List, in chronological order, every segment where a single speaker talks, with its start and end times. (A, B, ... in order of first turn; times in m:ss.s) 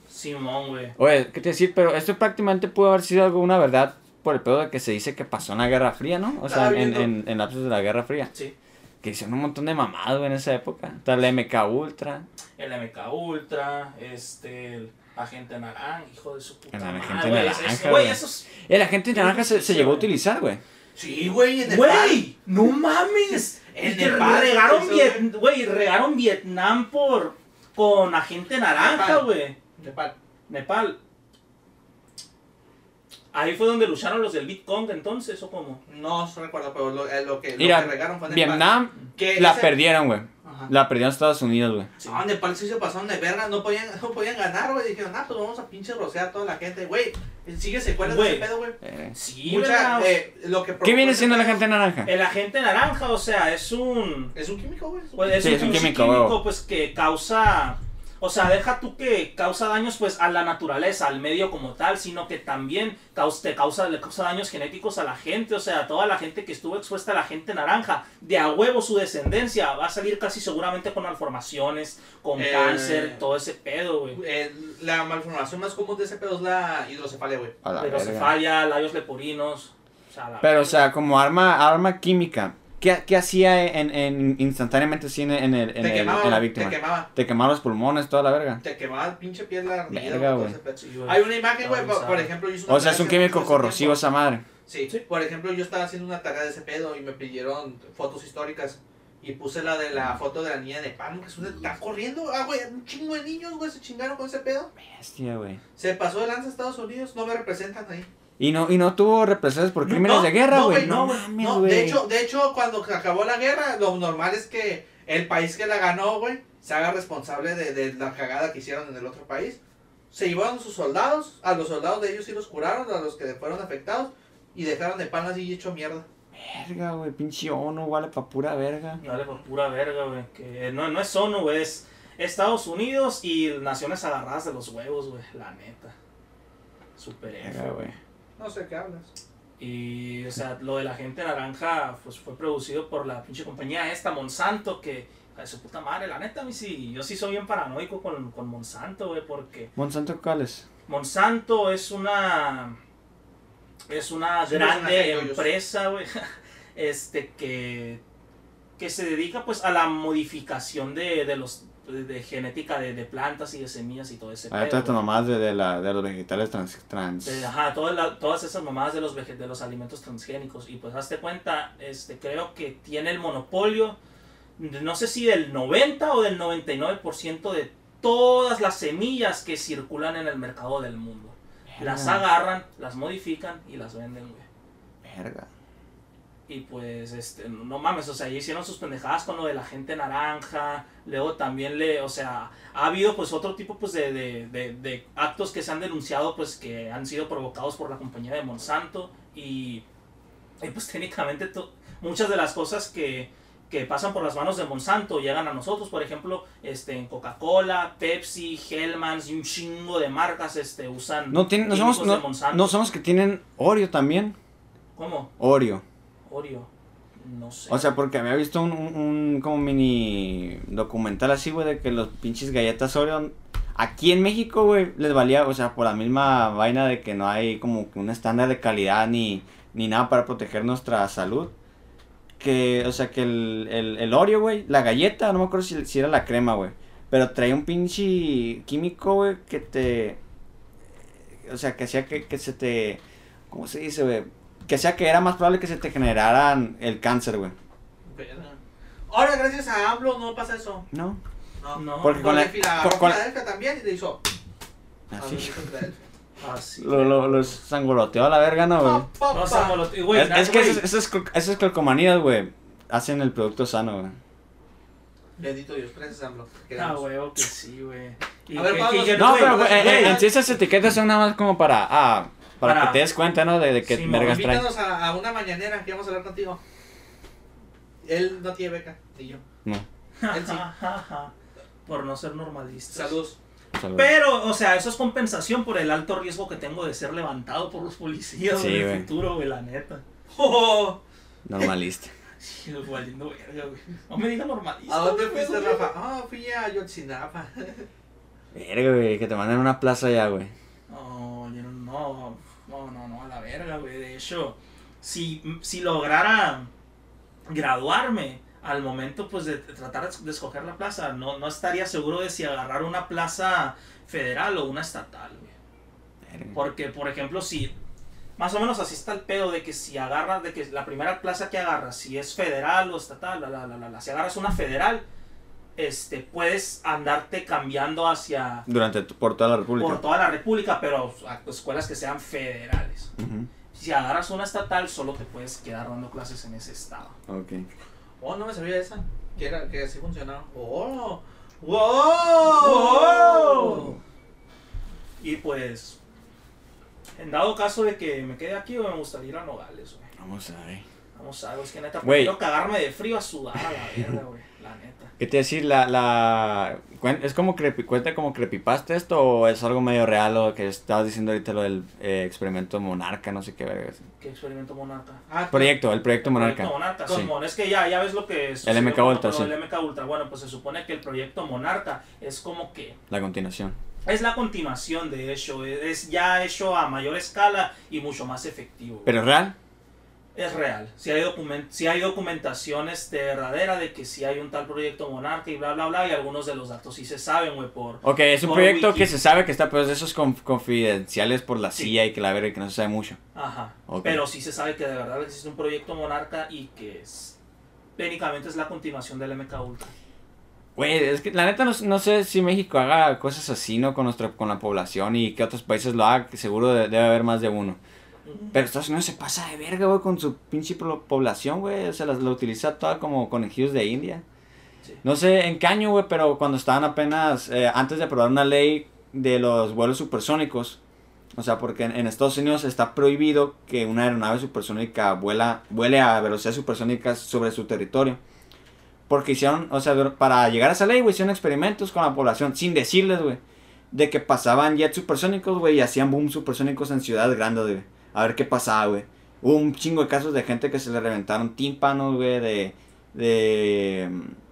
0:00.1-0:01.0 A
0:01.0-0:08.3 B
0:06.4-0:07.1 C
0:09.0-0:12.2 B
0:12.6-0:18.5 A
0:16.7-0:20.6 B
0:19.1-0:20.1 A
0:21.0-0:22.2 C
0:21.7-0:29.6 A
0:23.7-0:25.2 C
0:28.7-0:30.1 C
0:30.5-0:31.0 A
0:33.3-0:35.8 A
0:35.9-0:39.8 C
0:37.6-0:41.9 B
0:40.4-0:40.7 C
0:42.0-0:51.6 C
0:48.0-0:48.5 A
0:48.8-0:49.2 B
0:49.2-0:50.2 A
0:50.8-0:52.1 B
0:52.0-0:54.3 A
0:54.4-0:55.9 C
0:55.2-1:14.2 A
0:55.4-0:56.4 B
1:12.4-1:13.2 C
1:14.1-1:17.5 C
1:17.6-1:18.3 B
1:17.8-1:20.9 A
1:20.4-1:28.6 B
1:25.8-1:27.1 C
1:28.6-1:34.0 C
1:29.9-1:30.6 B
1:30.8-1:32.3 A
1:32.7-1:34.4 B
1:34.7-1:44.7 C
1:44.8-1:45.6 B
1:45.8-1:48.1 C
1:48.4-1:52.0 B
1:49.8-1:51.2 A
1:50.1-1:59.6 C
2:00.1-2:06.1 C
2:06.3-2:09.0 B
2:09.0-2:16.0 A
2:09.0-2:09.4 C
2:17.0-2:17.9 A
2:17.4-2:18.0 B
2:18.4-2:19.1 C
2:19.6-2:29.7 A
2:29.8-2:30.6 B
2:30.9-2:32.8 A
2:33.9-2:38.0 A
2:34.5-2:35.5 C
2:38.8-2:45.0 A
2:44.5-2:47.5 B
2:47.2-2:54.0 A
2:54.6-3:04.5 A
3:01.7-3:02.2 B
3:05.0-3:05.5 B
3:06.5-3:19.8 A
3:20.6-3:32.8 A
3:31.3-3:34.4 B
3:35.0-3:35.3 A
3:35.4-3:35.8 B
3:36.3-3:38.0 A
3:37.7-3:51.5 B
3:52.4-4:00.2 B
4:01.4-4:07.6 B
4:08.0-4:10.8 C
4:10.9-4:11.2 B
4:11.6-4:14.2 C
4:11.8-4:12.5 A
4:12.0-4:13.2 B
4:15.1-4:15.5 B
4:15.2-4:16.0 C
4:16.4-4:17.6 A
4:16.8-4:19.1 B
4:18.8-4:19.8 C
4:19.3-4:20.8 A
4:20.1-4:24.2 B
4:25.4-4:27.0 C
4:26.8-4:30.3 A
4:28.6-4:30.3 C
4:29.1-4:34.7 B
4:32.6-4:33.0 A
4:33.8-4:34.4 A
4:34.1-4:36.6 C
4:38.0-4:39.4 C
4:40.2-4:41.3 A
4:40.3-4:40.7 C
4:41.9-4:43.2 A
4:42.9-4:43.4 C
4:43.8-4:44.1 B
4:44.0-4:50.0 A
4:48.5-4:49.1 B
4:50.3-4:51.0 C
4:51.4-4:52.1 B
4:52.4-4:55.9 A
4:54.9-4:57.9 C
4:58.5-5:00.5 B
5:00.9-5:06.7 A
5:07.5-5:15.5 A
5:16.3-5:16.6 B
5:16.5-5:17.8 A
5:18.4-5:25.0 A
5:25.8-5:28.7 A
5:28.7-5:30.0 B
5:29.8-5:33.1 A
5:33.2-5:33.5 B
5:33.7-5:37.2 A
5:37.3-5:37.7 B
5:38.2-5:44.0 C
5:42.4-5:44.0 A
5:45.2-5:46.0 A
5:47.2-5:50.1 A
5:50.2-5:50.8 B
5:51.2-5:55.1 A
5:52.0-5:52.4 B
5:55.2-6:04.0 B
6:04.2-6:05.2 A
6:05.3-6:05.8 C
6:05.5-6:07.3 B
6:06.2-6:13.0 A
6:08.6-6:09.5 B
6:13.1-6:13.8 B
6:14.0-6:19.2 A
6:19.0-6:19.6 B
6:20.4-6:29.2 A
6:28.0-6:33.2 B
6:33.4-6:37.4 A
6:33.9-6:34.2 B
6:38.0-6:39.9 A
6:40.8-6:47.8 B
6:48.2-6:48.6 A
6:48.5-6:54.2 B
6:55.0-7:00.8 B
7:01.3-7:08.2 B
7:09.1-7:24.4 B